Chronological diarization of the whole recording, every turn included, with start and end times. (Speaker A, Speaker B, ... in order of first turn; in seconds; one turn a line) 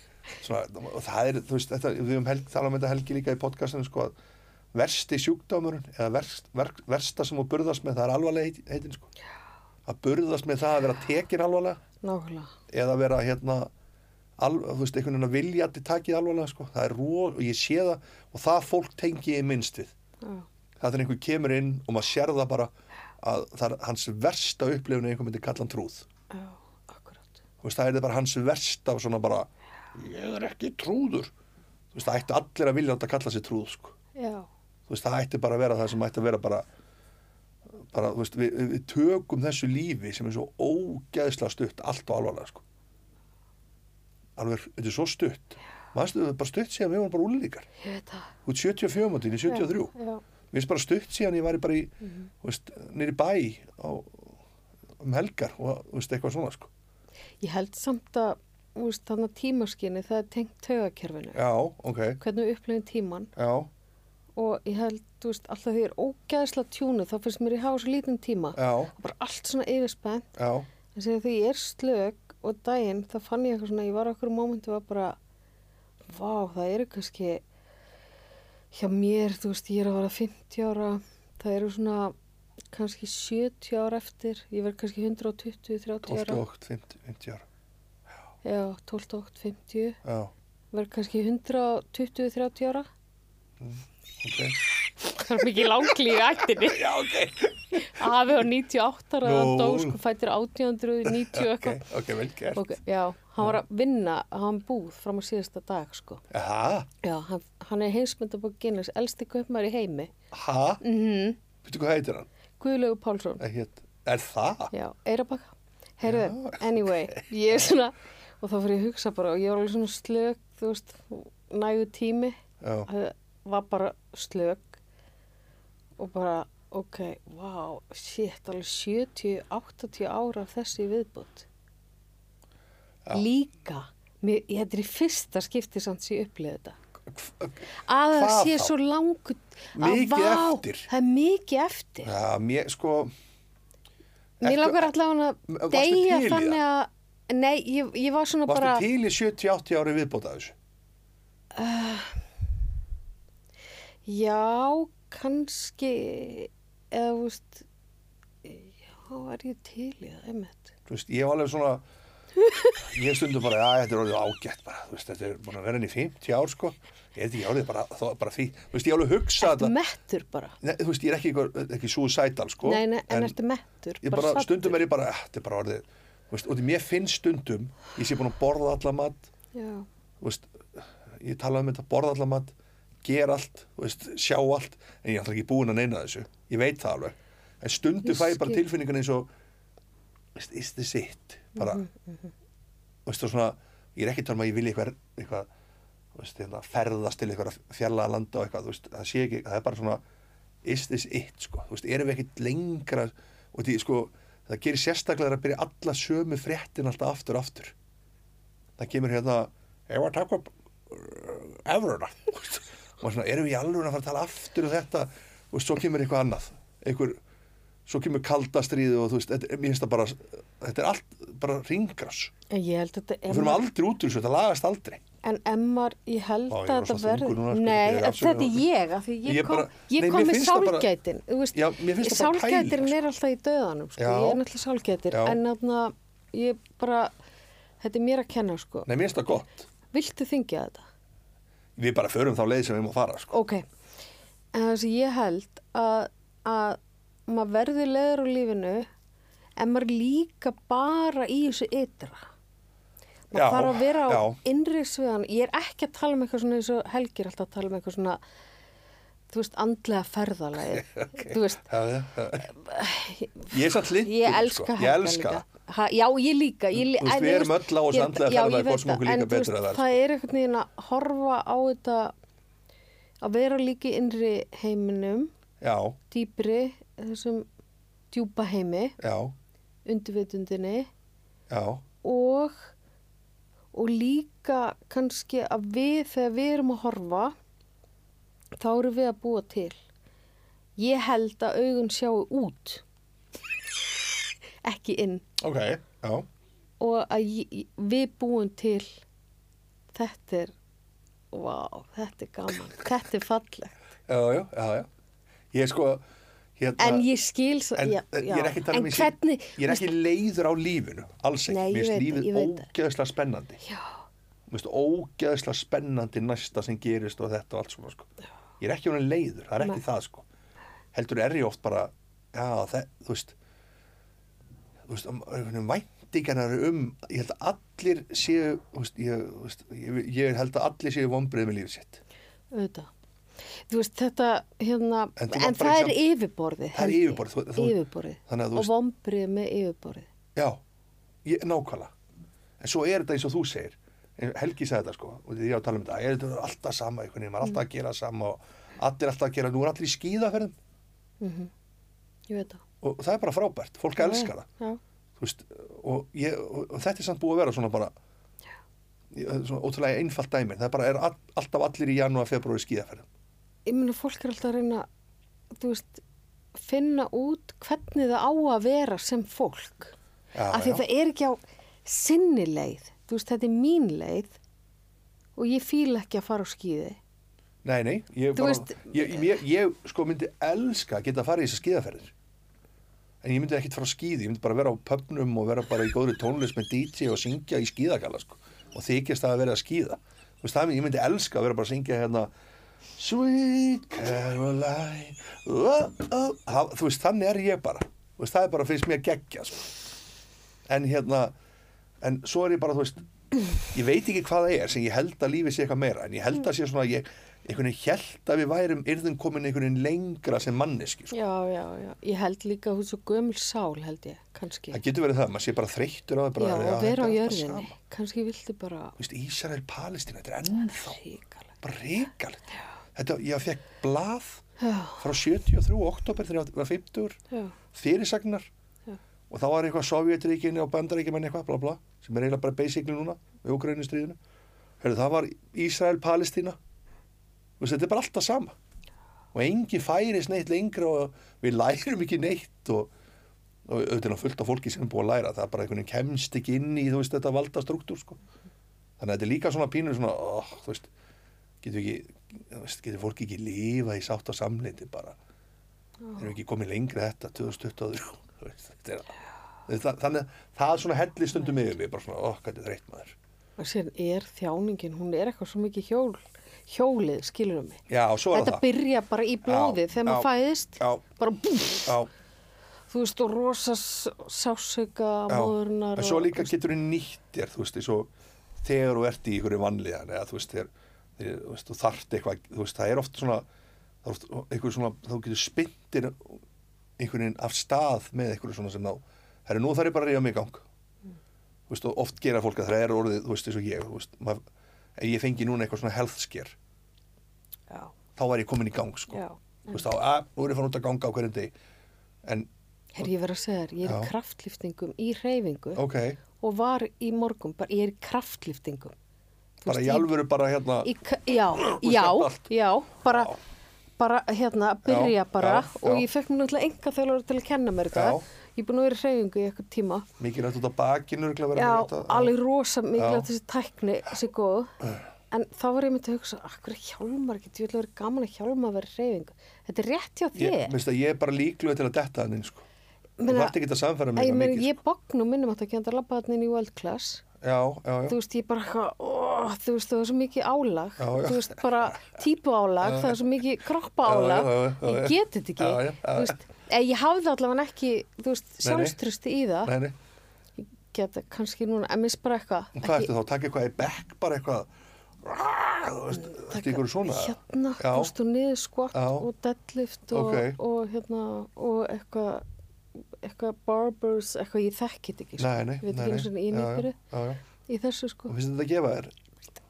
Speaker A: 0.4-4.2
Speaker A: 4.7-9.1
Speaker A: 9.9-11.8
Speaker B: 12.0-12.5
Speaker A: 12.7-13.7
Speaker A: 14.4-19.9
Speaker B: 20.2-20.5
Speaker A: 20.8-26.1
Speaker B: 26.3-27.4
Speaker A: 27.6-31.3
Speaker A: 31.9-34.0
Speaker B: 34.1-34.5
Speaker A: 34.9-36.7
Speaker A: 37.9-42.6
Speaker A: 44.4-47.7
Speaker B: 47.8-48.3
Speaker A: 48.5-49.9
Speaker B: 49.5-50.2
Speaker A: 50.5-54.4
Speaker A: 55.0-56.7
Speaker B: 57.4-61.4
Speaker A: 61.4-62.2
Speaker B: 62.2-63.3
Speaker A: 63.4-63.7
Speaker B: 64.4-70.3
Speaker A: 68.6-69.0
Speaker A: 70.4-70.7
Speaker B: 70.9-75.2
Speaker B: 76.0-77.4
Speaker B: 78.7-82.2
Speaker B: 82.7-86.4
Speaker A: 86.0-87.5
Speaker B: 88.4-90.0
Speaker A: 90.0-90.3
Speaker B: 90.7-92.9
Speaker A: 93.6-94.6
Speaker B: 95.1-96.9
Speaker A: 95.1-95.6
Speaker A: 96.1-98.2
Speaker B: 97.8-101.9
Speaker A: 99.2-100.0
Speaker A: 101.0-102.7
Speaker B: 102.5-106.2
Speaker A: 106.3-106.9
Speaker B: 107.0-110.1
Speaker A: 110.3-110.8
Speaker B: 110.8-111.4
Speaker A: 111.6-112.3
Speaker B: 112.6-113.4
Speaker A: 113.4-114.7
Speaker B: 114.7-124.8
Speaker A: 116.0-117.8
Speaker A: 122.6-122.9
Speaker B: 126.0-131.5
Speaker B: 133.1-136.8
Speaker A: 137.1-138.7
Speaker B: 137.8-142.1
Speaker A: 139.8-140.9
Speaker A: 142.0-143.1
Speaker A: 144.4-144.9
Speaker B: 144.4-148.8
Speaker A: 145.5-146.6
Speaker A: 148.5-150.6
Speaker B: 151.5-152.2
Speaker B: 154.1-157.7
Speaker B: 158.4-160.7
Speaker A: 160.9-161.8
Speaker B: 162.4-162.8
Speaker A: 162.8-169.8
Speaker B: 169.4-170.6
Speaker A: 170.6-173.4
Speaker B: 172.6-174.8
Speaker A: 174.0-179.3
Speaker B: 179.5-179.9
Speaker A: 180.2-189.3
Speaker B: 188.0-188.6
Speaker A: 190.4-191.8
Speaker B: 191.6-192.3
Speaker A: 193.1-195.5
Speaker A: 196.2-200.0
Speaker A: 200.6-207.8
Speaker A: 208.8-217.2
Speaker A: 217.9-222.3
Speaker B: 222.5-223.6
Speaker A: 223.3-225.0
Speaker B: 225.2-237.1
Speaker A: 226.5-228.6
Speaker A: 229.2-230.9
Speaker A: 231.5-233.0
Speaker A: 234.0-234.4
Speaker A: 235.1-235.4
Speaker B: 237.8-238.9
Speaker A: 238.9-239.7
Speaker B: 239.9-240.9
Speaker A: 241.8-243.3
Speaker B: 243.3-243.7
Speaker B: 244.5-248.9
Speaker B: 249.6-252.3
Speaker B: 253.3-258.2
Speaker A: 253.3-254.4
Speaker B: 259.3-261.7
Speaker A: 260.7-262.5
Speaker B: 262.4-272.1
Speaker A: 263.5-265.4
Speaker A: 266.7-270.0
Speaker B: 273.2-275.3
Speaker A: 275.6-276.0
Speaker B: 276.1-277.5
Speaker B: 278.1-279.0
Speaker A: 279.0-279.3
Speaker B: 279.9-280.9
Speaker A: 281.5-281.8
Speaker B: 282.0-282.7
Speaker B: 283.7-287.4
Speaker B: 288.6-289.8
Speaker B: 290.8-292.8
Speaker B: 294.6-295.2
Speaker A: 295.4-296.3
Speaker B: 296.8-299.0
Speaker B: 299.9-300.5
Speaker B: 301.3-303.8
Speaker A: 304.1-304.9
Speaker A: 305.5-306.0
Speaker A: 306.6-307.1
Speaker B: 306.8-309.9
Speaker A: 307.8-313.6
Speaker B: 311.5-312.7
Speaker B: 313.6-314.0
Speaker A: 314.5-318.1
Speaker A: 318.6-320.3
Speaker A: 320.9-323.4
Speaker A: 324.9-332.0
Speaker B: 332.5-332.9
Speaker B: 333.5-340.1
Speaker A: 335.2-336.0
Speaker A: 336.7-338.7
Speaker A: 341.2-341.9
Speaker A: 342.6-350.6
Speaker B: 351.2-351.5
Speaker B: 352.3-352.6
Speaker A: 352.8-354.5
Speaker B: 354.0-354.8
Speaker A: 355.2-357.9
Speaker A: 359.1-363.1
Speaker B: 363.7-364.9
Speaker B: 365.5-366.0
Speaker B: 366.6-369.9
Speaker A: 370.4-370.8
Speaker B: 370.5-374.4
Speaker B: 375.4-377.0
Speaker A: 377.6-382.1
Speaker B: 378.4-379.3
Speaker A: 383.2-392.3
Speaker A: 393.0-399.7
Speaker A: 400.7-401.3
Speaker A: 402.0-403.0
Speaker A: 403.7-411.1
Speaker B: 411.1-414.8
Speaker A: 414.7-417.7
Speaker B: 416.4-419.0
Speaker A: 419.0-421.0
Speaker B: 420.5-421.5
Speaker A: 421.6-424.4
Speaker B: 424.6-425.0
Speaker A: 425.0-427.2
Speaker A: 427.7-428.5
Speaker A: 429.3-434.2
Speaker A: 434.8-436.6
Speaker A: 437.6-438.6
Speaker A: 439.3-442.9
Speaker A: 443.7-448.2
Speaker A: 449.0-450.9
Speaker A: 451.6-455.2
Speaker A: 456.2-459.1
Speaker A: 459.7-463.2
Speaker B: 463.6-472.0
Speaker A: 467.9-468.6
Speaker A: 469.5-471.1
Speaker A: 471.9-472.1
Speaker B: 472.9-476.5
Speaker A: 475.3-478.1
Speaker A: 478.6-483.5
Speaker A: 484.0-486.4
Speaker A: 487.0-490.6
Speaker A: 491.7-494.4
Speaker A: 495.0-496.6
Speaker A: 498.2-501.5
Speaker B: 499.1-499.8
Speaker A: 502.2-502.5
Speaker B: 502.9-505.8
Speaker A: 503.8-504.1
Speaker A: 505.8-506.2
Speaker B: 506.4-508.9
Speaker B: 509.6-510.1
Speaker A: 509.6-510.9
Speaker B: 510.8-513.3
Speaker A: 511.5-512.5
Speaker A: 513.1-513.4
Speaker B: 514.0-520.1
Speaker A: 514.9-516.1
Speaker A: 517.9-518.2
Speaker A: 520.2-522.3
Speaker B: 521.5-524.7
Speaker A: 523.0-523.3
Speaker B: 525.3-530.8
Speaker A: 530.4-532.6
Speaker B: 533.2-533.6
Speaker A: 533.3-534.7
Speaker B: 534.1-537.2
Speaker A: 537.4-538.2
Speaker B: 538.1-549.7
Speaker A: 541.0-542.2
Speaker A: 542.8-543.2
Speaker A: 544.0-546.4
Speaker A: 548.6-549.0
Speaker A: 549.6-550.0
Speaker B: 550.6-553.1
Speaker A: 552.8-554.7
Speaker A: 555.2-558.1
Speaker B: 556.1-562.5
Speaker A: 558.9-559.3
Speaker A: 560.1-560.6
Speaker B: 563.0-567.0
Speaker A: 565.4-567.4
Speaker B: 567.7-568.3
Speaker A: 568.3-569.1